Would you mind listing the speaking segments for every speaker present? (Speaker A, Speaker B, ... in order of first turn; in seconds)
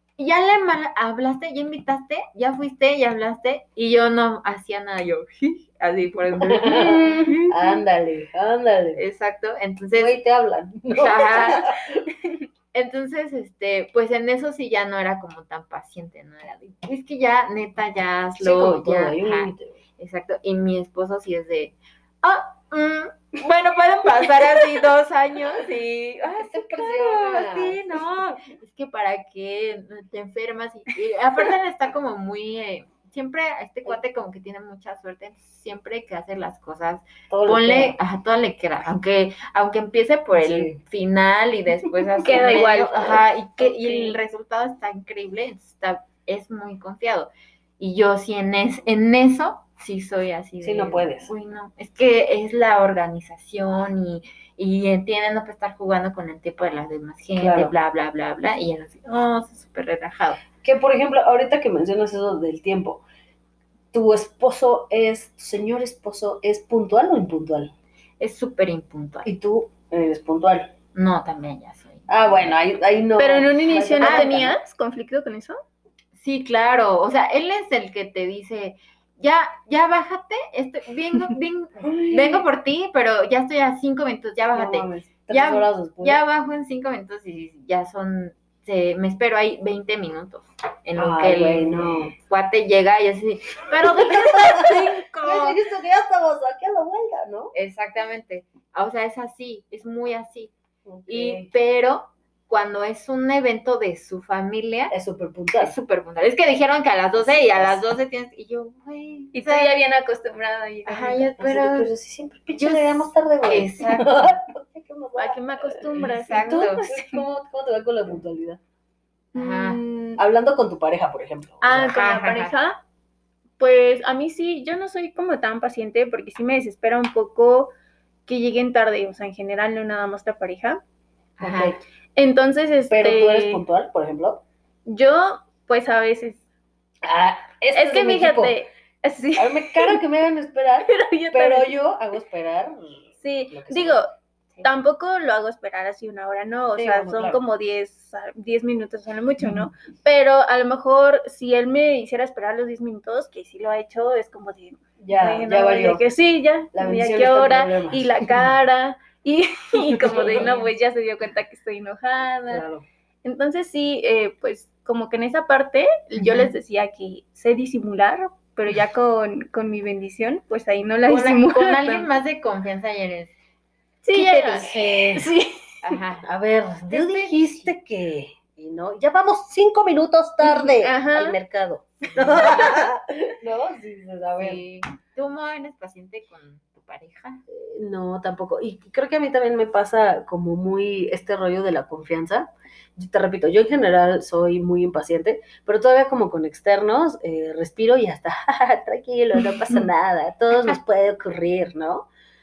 Speaker A: 0.2-7.4, 8.9-10.2, 10.9-11.7, 12.7-60.4, 68.2-69.3, 71.0-72.5, 74.0-74.4, 76.1-95.6, 97.5-100.5, 101.1-104.9, 105.6-109.7, 110.9-111.9, 112.5-114.3, 116.0-116.9, 119.3-119.8, 121.9-122.5, 131.4-131.8, 160.1-160.7, 166.2-166.5, 171.1-173.3, 174.1-174.8, 175.8-176.3, 176.9-177.7, 182.0-182.8, 184.4-187.4
Speaker B: 6.4-9.0, 10.0-12.1, 18.4-19.8, 26.4-28.4, 37.3-38.0, 40.3-40.8, 50.6-51.3, 57.4-57.7, 60.6-63.0, 63.9-67.7, 69.2-70.7, 72.1-74.6, 81.8-82.5, 84.5-86.2, 91.0-92.1, 93.9-97.5, 100.9-101.5, 104.9-105.7, 107.2-107.8, 111.4-115.8, 116.4-118.6, 120.2-121.9, 131.4-131.8, 132.9-134.4, 137.0-138.6, 139.4-144.0, 146.8-147.4, 155.0-156.0, 156.7-158.5, 159.9-160.5, 162.5-162.8, 174.6-175.3, 176.2-184.6, 187.5-202.1
Speaker C: 6.7-7.5, 42.2-44.2, 73.2-75.6, 109.3-111.3, 115.2-117.2, 119.3-120.2, 121.6-122.8, 123.6-127.7, 128.3-130.8, 132.2-133.6, 134.9-136.4, 137.7-140.0, 140.8-141.7, 143.2-144.1, 144.6-162.6, 163.2-172.1, 174.0-176.0, 180.4-181.4